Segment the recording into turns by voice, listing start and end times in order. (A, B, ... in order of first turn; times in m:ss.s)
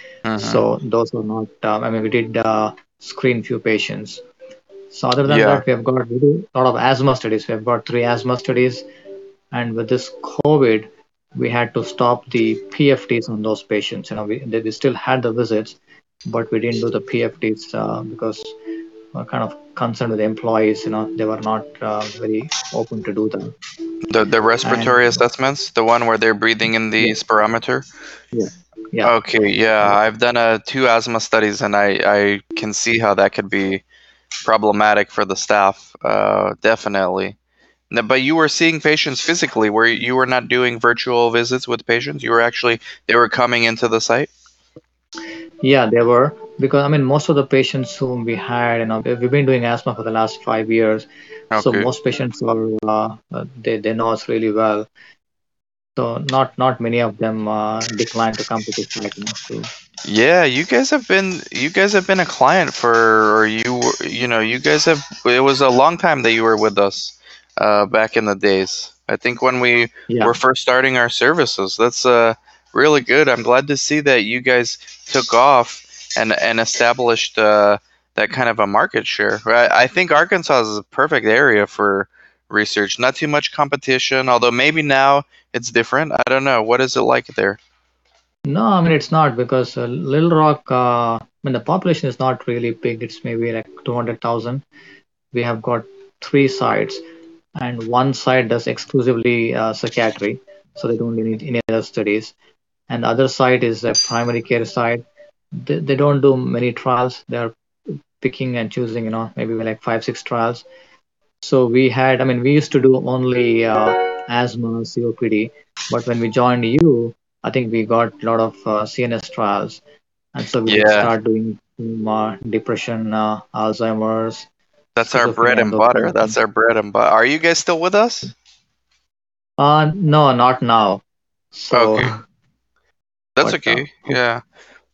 0:00.2-0:00.6 A
0:00.4-0:04.2 B
0:04.9-0:08.9 B
0:05.2-0:05.6 A
0:09.5-0:18.5 B
0:19.1-0:23.6 B
0:24.1-0:27.8 A
0:24.6-0:25.2 B
0:28.3-0:29.1 B
0:29.0-0:33.8 A
0:34.4-0:37.4 A
0:37.9-0:44.3 A
0:45.6-0:54.9 B
0:51.5-0:51.9 A
0:56.0-0:59.7 B
1:00.0-1:27.6 A
1:10.1-1:10.4 B
1:28.4-1:34.6 B
1:35.3-1:37.0 B
1:37.5-1:42.3 B
1:42.9-1:45.0 B
1:45.5-1:50.6 B
1:51.4-1:59.8 B
2:00.3-2:04.5 B
2:00.6-2:01.1 A
2:04.9-2:08.3 A
2:05.0-2:06.4 B
2:09.6-2:12.2 B
2:11.7-2:12.1 A
2:13.4-2:14.4 A
2:13.4-2:14.1 B